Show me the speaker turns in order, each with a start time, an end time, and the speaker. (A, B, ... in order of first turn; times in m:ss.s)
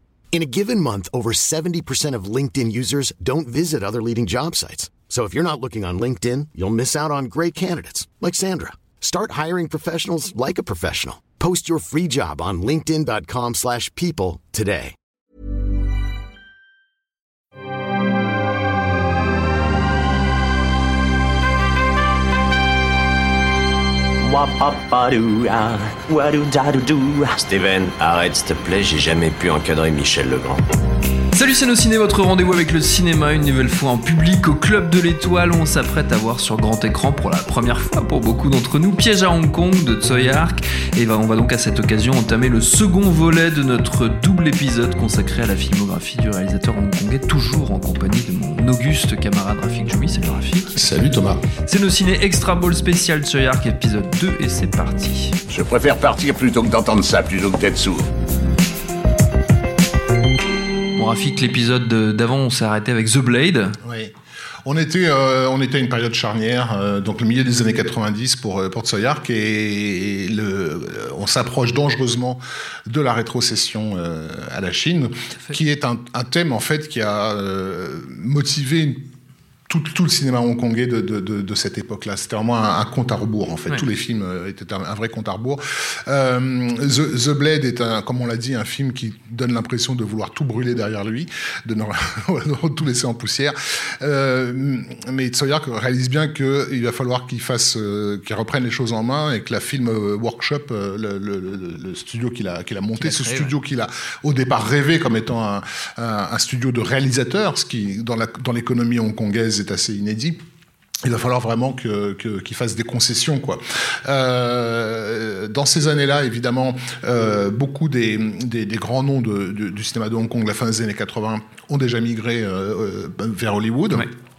0:00.3-0:14.9 A
0:24.2-0:30.6 B
0:31.3-0:51.0 C
0:50.7-0:51.4 D
0:51.6-0:55.4 C
0:55.5-0:58.1 E
1:00.9-1:03.7 C
1:03.8-1:04.1 D
1:04.6-1:19.0 D
1:19.7-1:50.4 D
1:43.0-1:43.5 C
1:51.0-2:04.1 D